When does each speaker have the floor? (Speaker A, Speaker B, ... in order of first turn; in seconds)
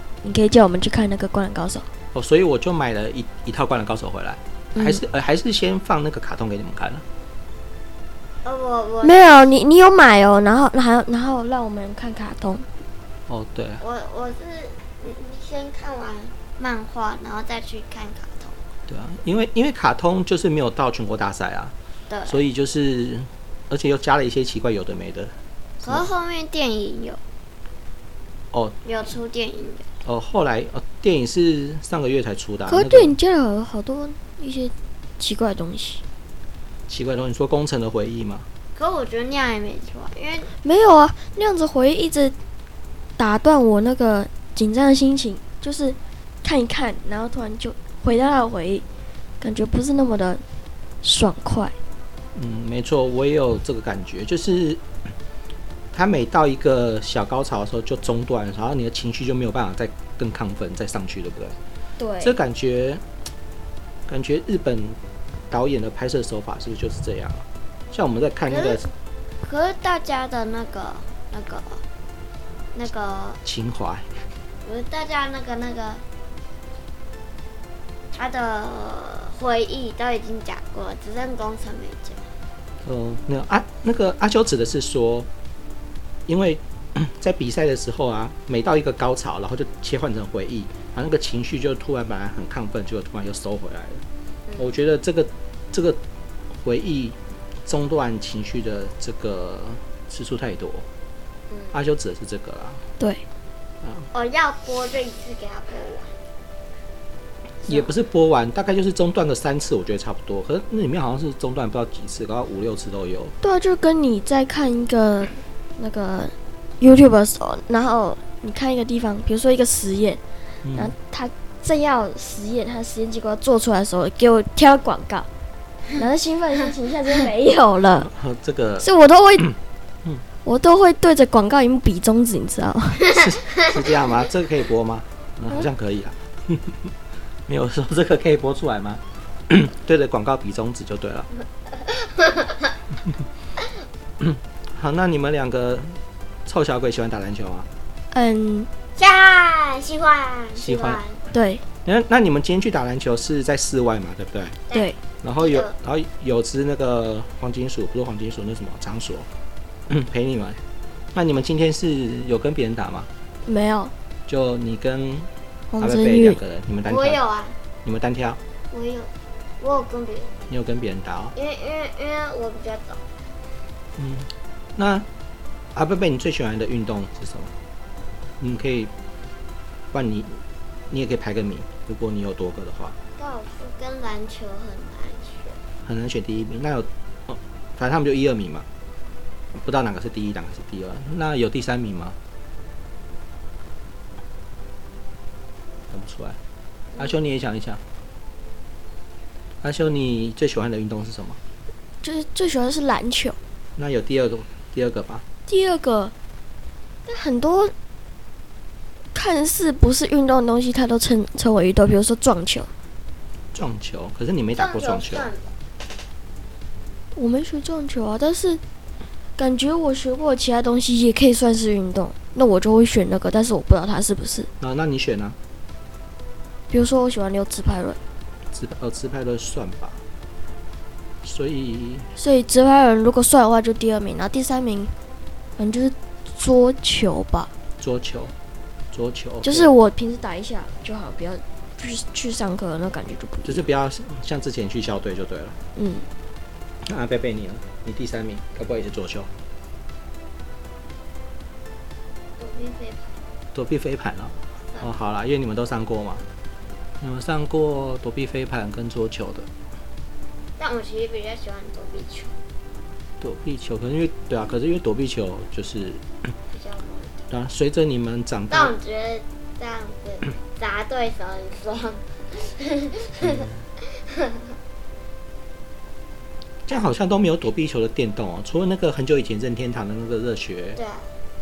Speaker A: 0.2-1.9, 4.8-5.0, 9.0-12.7, 32.7-36.0, 40.6-42.3, 43.2-48.9, 49.4-50.4, 51.0-51.8, 62.0-62.4, 103.0-103.2, 113.4-120.2, 120.7-125.3, 125.9-128.1, 128.8-129.6, 130.4-133.1, 148.1-148.7, 151.3-151.6, 163.4-163.9, 165.7-166.4, 202.0-203.4, 205.5-206.1, 207.1-207.7, 209.1-212.7, 217.1-218.6, 219.4-224.5, 226.7-228.0, 232.2-234.9, 235.6-237.5, 239.4-243.6, 245.8-246.1
Speaker B: 2.1-7.0, 13.3-13.8, 18.9-21.7, 22.3-25.4, 30.1-33.1, 36.9-38.5, 52.3-54.8, 55.9-61.6, 62.2-63.0, 64.1-65.0, 65.5-68.9, 73.4-74.2, 82.8-85.3, 86.3-94.0, 94.6-96.0, 96.6-100.9, 101.7-102.8, 107.7-113.3, 120.6-120.9, 128.0-128.9, 133.1-136.9, 137.5-141.3, 144.2-147.7, 150.6-151.0, 151.8-154.6, 155.2-159.3, 159.9-160.6, 161.1-163.1, 164.3-167.2, 167.8-168.4, 170.5-171.3, 174.0-175.1, 175.8-177.5, 178.4-178.9, 179.9-183.0, 185.8-188.7, 189.5-192.2, 195.9-196.4, 197.0-197.8, 199.6-201.4, 203.8-205.2, 213.5-215.3, 224.6-225.4, 228.5-230.0, 231.2-232.1, 237.8-238.3, 238.9-239.7, 243.4-245.6, 246.8-249.3, 253.5-256.3, 257.0-259.5, 263.2-266.2, 267.3-268.7, 273.2-273.6, 276.7-280.8
Speaker C: 8.4-9.4, 13.8-18.6, 22.1-22.4, 25.8-27.2, 28.9-29.9, 38.8-40.5, 68.5-71.8, 72.7-73.4, 74.6-76.0, 78.1-82.2, 94.5-94.7, 104.1-106.1, 141.9-142.5, 149.0-151.2, 154.7-155.7, 166.9-167.6, 168.7-170.4, 171.3-173.0, 183.2-185.6, 214.6-215.5, 252.4-253.2, 260.6-262.4, 266.5-267.3, 268.5-274.4, 280.8-281.1